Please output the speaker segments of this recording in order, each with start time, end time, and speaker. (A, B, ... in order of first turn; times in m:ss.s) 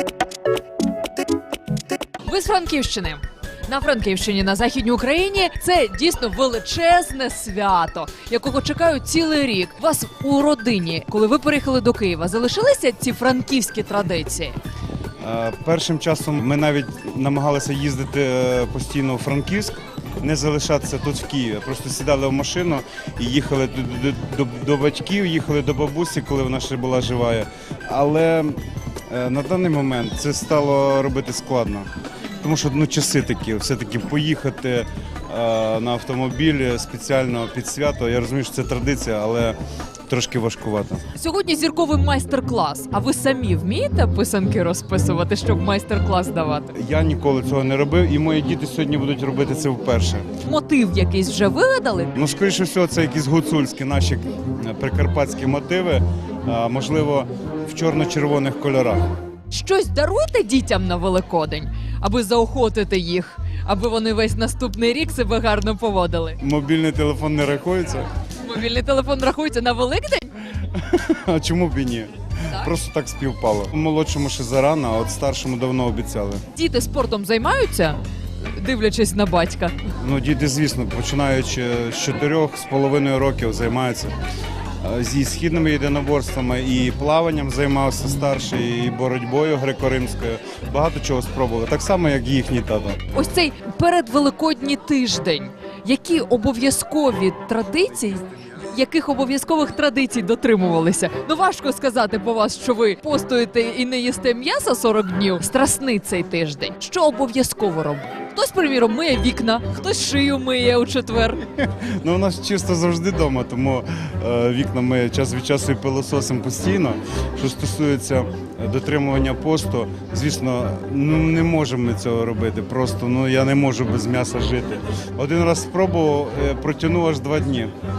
0:02.2-0:14.6 A
0:15.2-0:39.6 B
0:40.1-0:41.0 B
0:41.1-0:46.7 A
0:46.7-0:50.3 B
0:50.4-0:52.1 A
0:52.2-0:59.0 B
0:59.5-1:06.4 A
1:06.4-1:08.1 B
1:08.4-1:10.4 A
1:10.6-1:16.4 B
1:16.5-1:19.8 A
1:20.0-1:24.2 B
1:24.8-1:33.0 B
1:33.1-1:51.5 A
1:51.5-2:07.8 B